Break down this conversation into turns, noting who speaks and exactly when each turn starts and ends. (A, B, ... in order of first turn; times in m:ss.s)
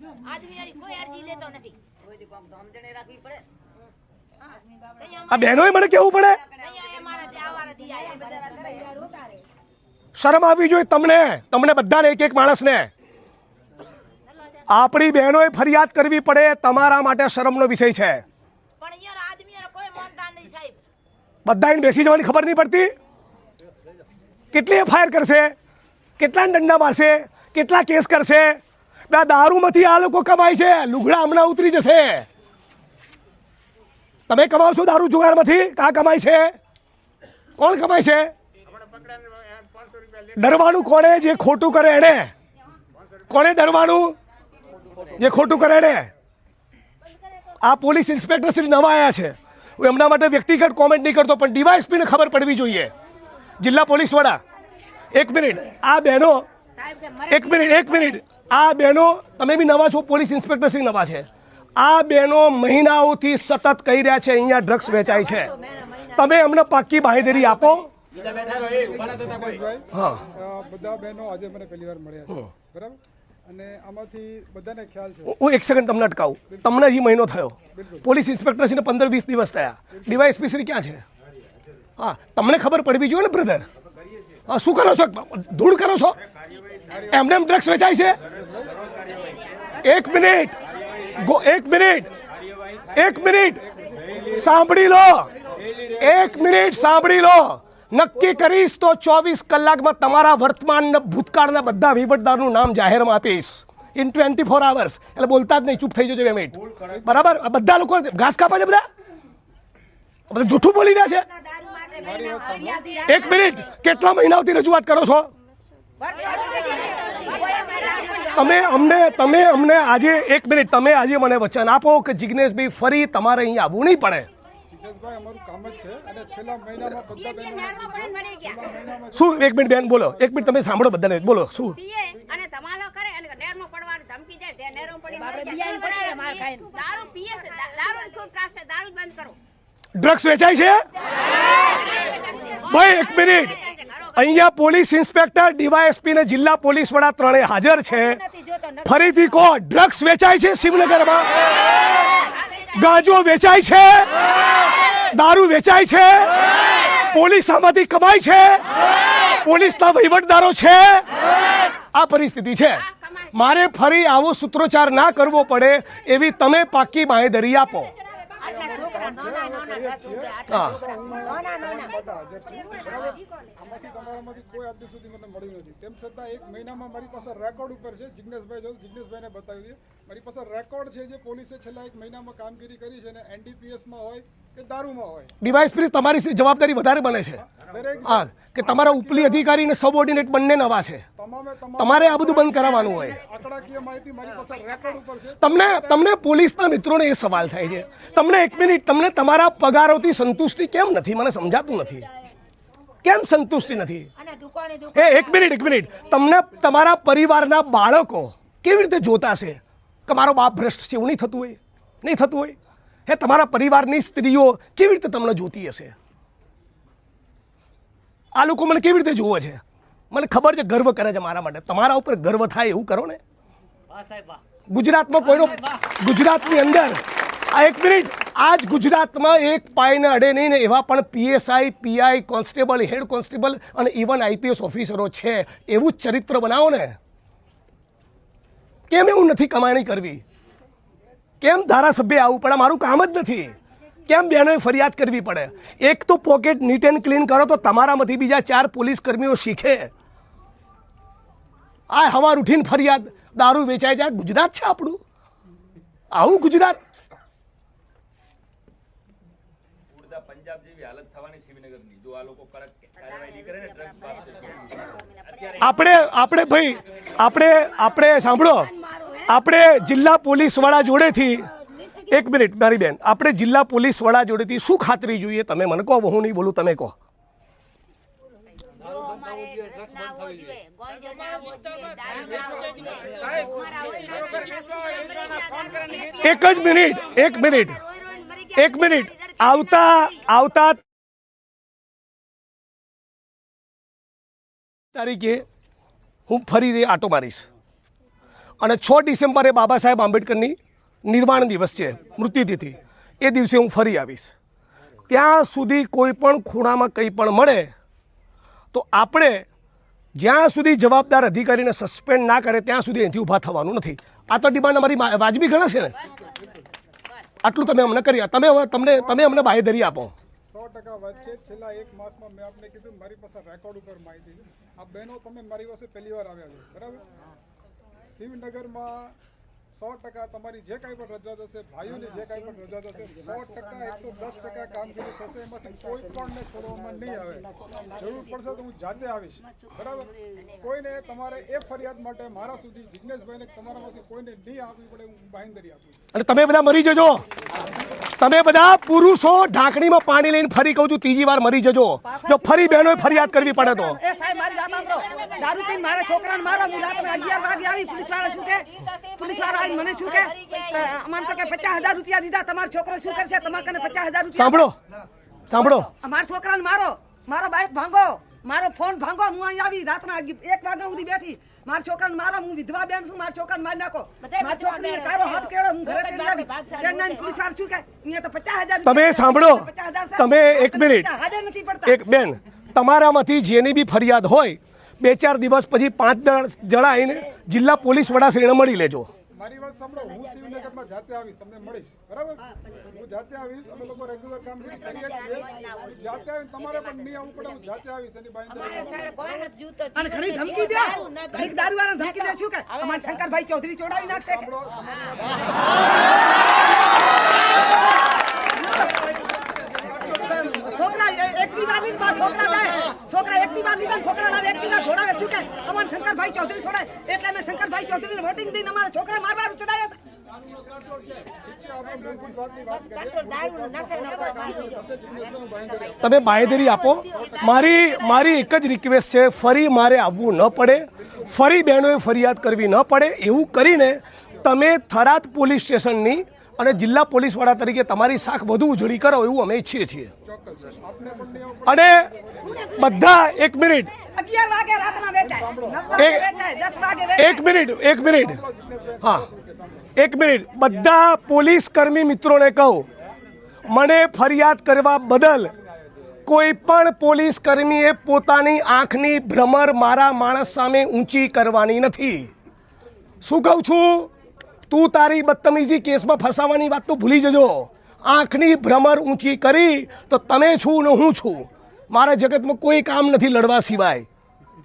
0:00.2-0:01.8 A
0:02.4-0:03.4 B
0:04.8-0:05.8 A
0:05.3-0:06.4 C
0:06.4-0:08.9 B
0:06.6-0:09.4 A
0:10.2-0:12.9 C
0:14.7-0:18.2 C
0:18.8-0:20.8 A
0:21.4-0:22.9 C
0:24.5-0:25.5 C
0:26.2-0:32.3 C
0:34.3-0:36.5 C
0:37.6-0:38.3 C
0:40.4-0:42.3 C
0:43.3-0:44.2 C
0:45.2-0:46.1 C
0:47.6-0:52.9 C
0:53.6-0:54.4 C
0:55.1-0:56.5 C
0:56.8-0:58.2 A
0:57.3-1:05.6 C
1:05.5-1:06.1 A
1:06.1-1:07.9 C
1:08.3-1:15.4 D
1:09.9-1:10.3 C
1:15.3-1:21.0 C
1:17.8-1:18.0 D
1:22.0-1:23.7 C
1:24.5-1:26.2 C
1:27.1-1:28.2 C
1:29.8-1:30.6 C
1:31.2-1:32.1 C
1:32.9-1:33.7 C
1:34.3-1:35.3 C
1:35.9-1:48.8 C
1:50.3-1:51.3 C
1:51.3-1:53.6 A
1:52.0-1:53.0 D
1:53.1-1:55.3 C
1:56.0-1:59.0 A
1:56.2-1:58.4 B
1:58.3-2:04.3 C
2:04.7-2:10.5 D
2:07.0-2:08.7 B
2:09.1-2:11.8 C
2:11.8-2:19.4 B
2:15.1-2:16.8 A
2:20.0-2:20.8 C
2:21.3-2:24.2 B
2:21.6-2:22.2 A
2:22.6-2:23.6 C
2:24.1-2:28.2 C
2:28.0-2:29.1 A
2:28.8-2:31.3 C
2:32.7-2:34.1 C
2:35.1-2:36.3 C
2:37.0-2:38.6 C
2:39.4-2:41.1 C
2:41.9-2:47.9 C
2:42.9-2:43.3 B
2:48.4-2:51.9 A
2:48.4-3:05.3 D
2:50.5-2:50.8 C
2:52.7-2:53.2 B
3:05.4-3:07.4 C
3:07.6-3:08.2 D
3:08.0-3:11.0 C
3:08.8-3:09.4 D
3:11.2-3:16.0 D
3:11.8-3:13.2 C
3:15.4-3:22.1 C
3:23.0-3:24.1 C
3:24.2-3:26.1 A
3:24.9-3:36.0 C
3:38.4-3:43.2 C
3:44.7-3:57.0 C
3:58.9-4:00.2 C
4:01.4-4:03.6 C
4:04.1-4:09.9 C
4:11.9-4:15.0 C
4:16.1-4:16.8 C
4:19.9-4:24.8 E
4:25.6-4:28.7 C
4:28.8-4:29.2 A
4:29.3-4:31.5 C
4:31.6-4:32.1 A
4:32.1-4:37.0 C
4:38.8-4:46.6 A
4:46.2-4:47.8 C
4:47.3-4:50.2 A
4:48.5-4:50.8 C
4:54.9-4:55.4 C
4:56.3-4:57.5 C
4:58.6-5:04.3 C
5:05.1-5:07.7 C
5:08.7-5:09.5 C
5:10.2-5:16.0 C
5:16.0-5:16.7 D
5:17.4-5:20.1 C
5:19.0-5:19.4 D
5:20.5-5:27.0 D
5:28.1-5:29.2 D
5:29.8-5:46.1 D
5:46.1-5:47.2 C
5:48.2-5:54.0 C
5:52.0-5:53.2 B
5:52.6-6:04.7 F
5:54.0-6:01.9 B
6:03.2-6:03.9 B
6:04.3-6:04.8 C
6:05.5-6:05.9 C
6:05.9-6:22.0 F
6:14.2-6:17.3 A
6:18.8-6:21.1 C
6:21.9-6:29.1 C
6:29.4-6:39.2 D
6:38.6-6:42.3 A
6:40.0-6:44.5 F
6:44.2-6:45.7 D
6:50.0-7:00.0 F
7:01.4-7:06.0 D
7:03.2-7:04.8 A
7:06.0-7:20.1 C
7:20.2-7:22.8 D
7:21.7-7:22.1 C
7:22.7-7:23.9 C
7:24.1-7:27.5 F
7:25.3-7:26.0 D
7:26.0-7:26.3 C
7:27.2-7:28.4 C
7:28.1-7:29.9 D
7:30.0-7:32.9 C
7:33.7-7:35.5 C
7:36.3-7:42.3 C
7:43.2-7:44.1 C
7:44.7-7:54.1 C